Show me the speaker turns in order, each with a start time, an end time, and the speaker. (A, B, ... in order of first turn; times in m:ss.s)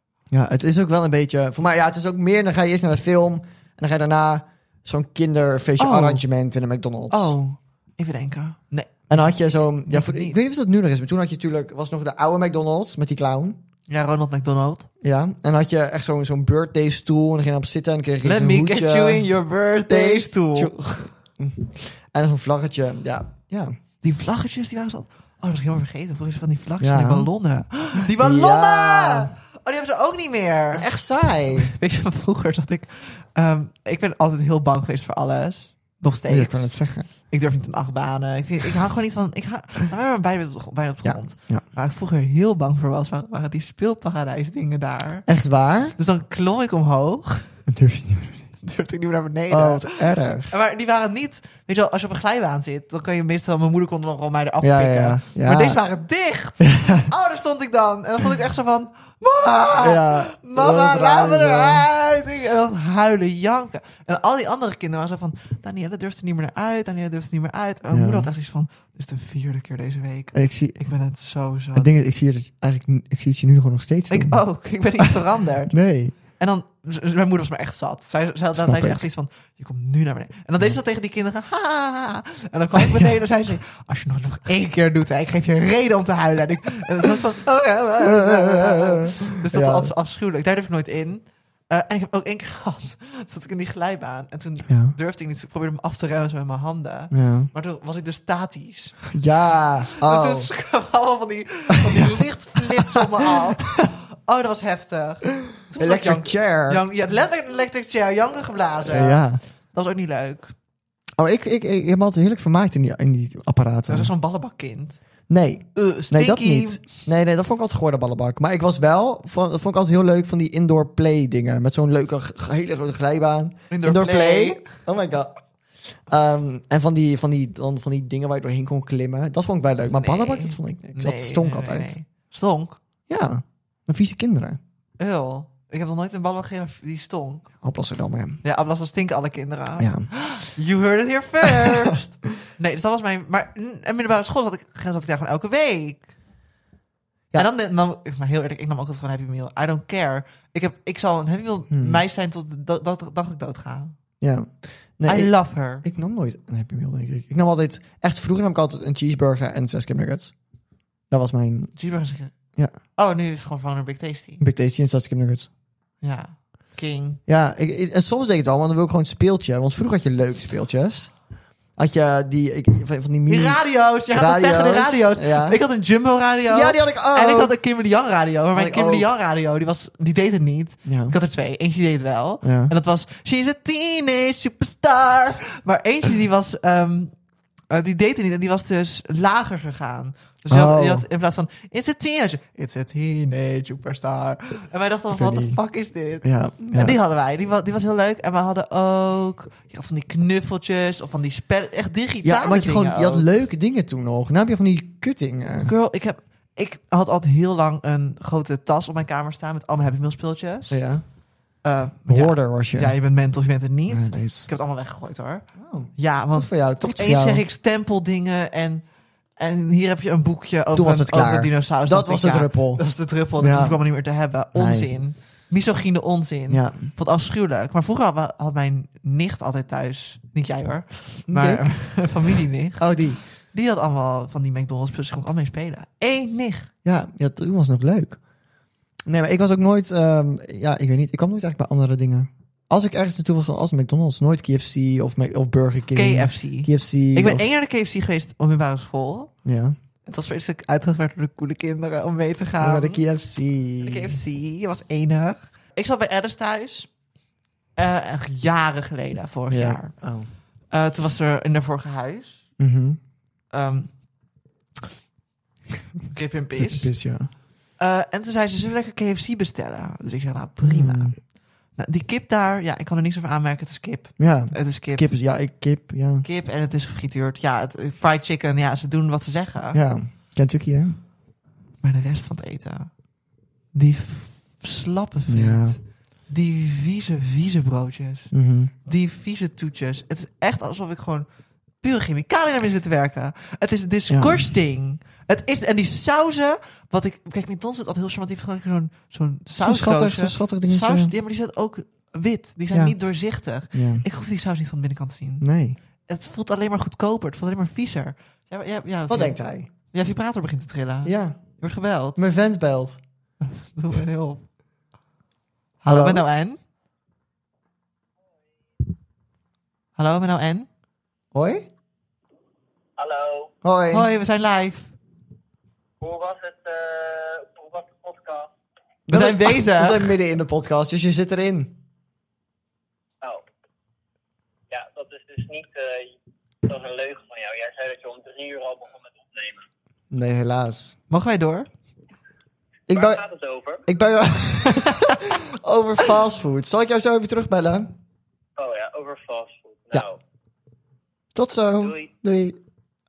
0:00.3-0:07.4 A
0:05.8-0:06.2 B
0:07.1-0:10.4 B
0:09.1-0:13.6 A
0:13.9-0:14.9 B
0:15.0-0:19.3 A
0:18.2-0:21.0 B
0:19.9-0:23.8 A
0:24.0-0:30.9 B
0:26.8-0:27.3 A
0:28.0-0:29.3 A
0:30.7-0:31.7 A
0:31.5-0:45.3 B
0:36.3-0:37.1 A
0:41.0-0:41.6 A
0:45.3-0:46.0 A
0:46.0-0:47.5 B
0:47.7-0:48.5 A
0:48.6-1:11.9 B
0:49.5-0:50.5 A
0:54.6-0:55.8 A
0:56.6-0:57.1 A
0:59.8-1:01.9 A
1:07.9-1:08.3 A
1:10.3-1:10.8 A
1:11.8-1:14.4 A
1:14.1-1:39.1 B
1:15.7-1:16.2 A
1:18.6-1:19.0 A
1:28.0-1:29.9 A
1:34.7-1:35.0 A
1:37.1-1:37.5 A
1:39.1-1:40.5 A
1:40.0-1:50.5 B
1:42.8-1:43.9 A
1:45.8-1:46.8 A
1:48.8-1:49.4 A
1:51.2-1:54.1 A
1:53.9-1:55.0 B
1:55.3-2:05.3 A
1:55.8-1:57.0 B
2:03.7-2:04.7 B
2:06.1-2:12.0 A
2:09.9-2:12.8 B
2:13.1-2:14.6 A
2:15.0-2:17.5 B
2:17.6-2:18.4 A
2:18.4-2:26.1 B
2:19.8-2:20.1 A
2:21.4-2:21.8 A
2:27.4-2:34.0 B
2:31.7-2:32.0 A
2:34.2-2:40.3 A
2:35.1-2:35.8 B
2:41.1-2:41.7 A
2:41.8-2:42.3 B
2:43.0-2:44.4 B
2:44.4-2:45.5 A
2:46.0-2:47.2 B
2:47.3-2:51.1 A
2:51.8-2:55.6 A
2:53.3-3:07.1 B
2:56.5-2:57.6 A
2:58.5-2:59.1 A
3:00.9-3:01.2 A
3:02.4-3:02.7 A
3:07.7-3:23.3 B
3:10.5-3:11.1 A
3:15.1-3:15.6 A
3:16.2-3:17.0 A
3:22.2-3:25.7 A
3:25.6-3:30.8 B
3:30.7-3:31.0 A
3:31.6-3:38.8 B
3:32.1-3:33.0 A
3:33.9-3:34.5 A
3:35.6-3:37.4 A
3:39.4-3:56.7 B
3:40.7-3:42.8 A
3:43.4-3:43.8 A
3:44.6-3:44.9 A
3:46.5-3:46.9 A
3:51.3-3:51.7 A
3:52.8-3:53.2 A
3:56.8-3:58.2 A
3:59.1-4:07.4 A
4:05.9-4:09.3 B
4:09.4-4:09.8 A
4:10.1-4:13.0 B
4:12.6-4:14.2 A
4:13.8-4:16.9 B
4:17.8-4:19.9 B
4:19.5-4:20.3 A
4:20.7-4:22.4 B
4:22.6-4:23.0 A
4:23.5-4:23.9 B
4:26.1-4:26.9 B
4:26.6-4:27.3 A
4:27.8-4:31.2 B
4:30.6-4:31.2 A
4:31.8-4:35.1 B
4:34.2-4:36.3 A
4:36.2-4:39.8 B
4:39.7-4:41.0 A
4:41.8-4:42.9 B
4:43.7-4:48.3 B
4:45.3-4:45.8 A
4:48.3-4:48.7 A
4:48.8-4:51.3 B
4:51.8-5:05.5 B
4:54.1-4:54.4 A
4:59.6-5:01.1 A
5:02.7-5:03.0 A
5:03.7-5:04.0 A
5:05.4-5:05.8 A
5:06.1-5:12.2 B
5:09.1-5:09.7 A
5:11.0-5:11.4 A
5:12.2-5:13.0 A
5:13.4-5:14.4 B
5:15.8-5:16.6 B
5:15.9-5:16.2 A
5:20.0-5:20.7 B
5:21.3-5:21.7 A
5:23.0-5:23.5 C
5:23.6-5:24.1 A
5:23.9-5:24.9 B
5:26.0-5:28.5 C
5:29.1-5:31.8 A
5:29.1-5:30.2 B
5:34.7-5:36.1 C
5:36.7-5:39.6 C
5:40.1-5:41.0 A
5:41.1-5:41.7 B
5:42.9-5:43.2 A
5:42.9-5:43.8 C
5:43.9-5:47.9 A
5:44.7-5:45.1 B
5:48.6-5:50.2 C
5:51.4-5:52.6 A
5:51.8-5:52.1 C